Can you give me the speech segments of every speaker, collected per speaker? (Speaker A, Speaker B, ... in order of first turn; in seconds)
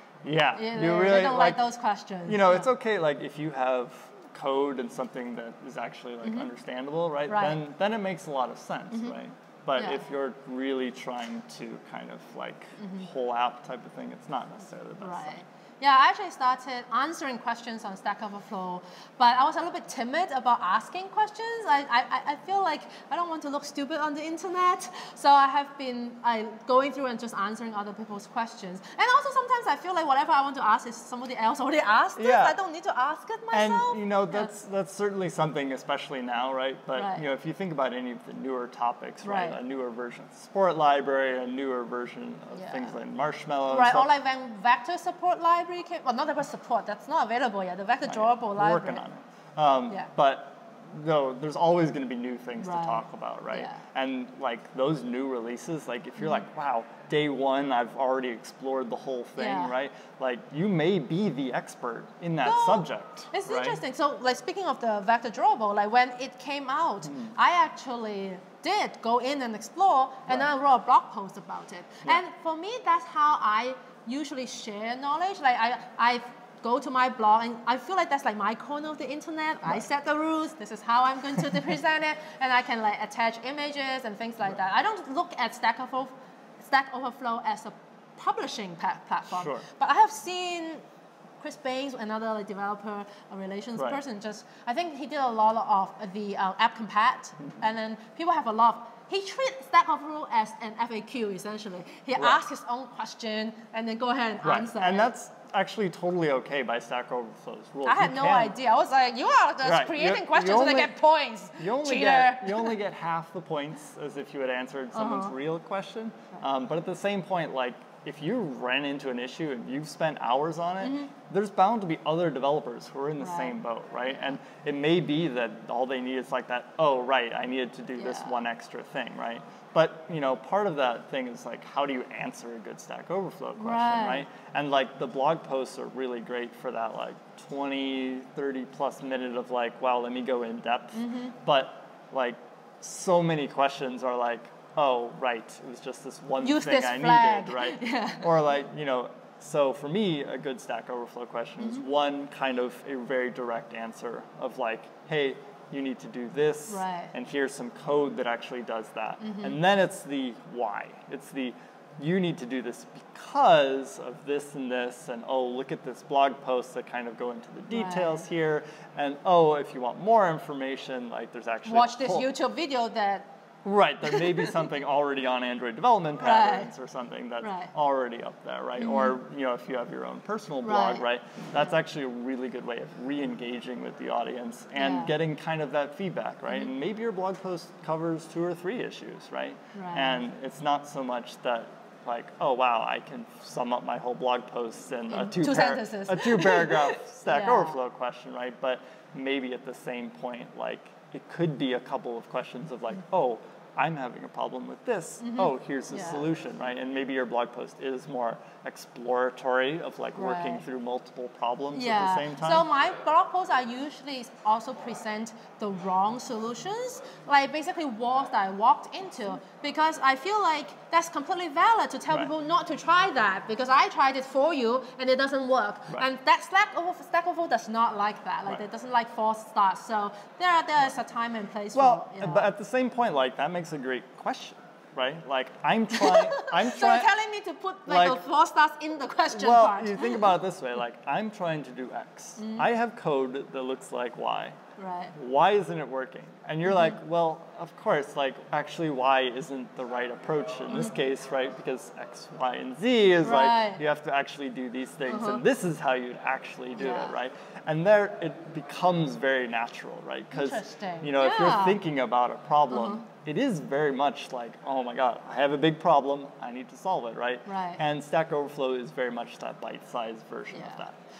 Speaker A: 0.2-1.6, 2.2-15.4, 32.1-32.6, 33.5-44.1, 48.0-63.8, 67.0-67.3, 89.3-89.6, 102.2-102.4, 104.4-108.5, 109.6-111.0, 111.6-172.3, 173.6-212.7, 231.7-237.1, 237.9-238.2, 239.3-244.6, 245.1-270.9
Speaker B: 0.5-2.7, 6.2-6.5, 7.3-7.6, 8.9-9.2, 9.8-10.0, 12.8-13.1, 15.0-34.5, 36.9-37.2, 39.2-39.6, 42.5-43.0, 43.7-49.0, 52.6-53.8, 59.4-59.7, 62.4-90.8, 91.4-105.1, 107.8-112.8, 114.9-115.3, 120.8-121.1, 123.2-123.5, 128.0-128.4, 133.6-134.2, 140.9-141.3, 146.4-148.3, 156.7-157.1, 159.2-159.6, 167.7-168.2, 171.7-173.3, 174.1-174.5, 176.2-176.7, 177.4-177.7, 178.8-179.2, 180.6-181.0, 184.8-185.1, 189.7-190.2, 195.1-197.8, 205.2-206.2, 210.1-210.6, 211.7-232.5, 235.9-240.3, 242.4-242.7, 244.8-245.1, 246.7-246.9, 250.7-250.9, 253.2-253.8, 255.1-255.4, 256.8-257.2, 260.3-261.8, 262.7-263.0, 267.4-267.8, 270.5-270.8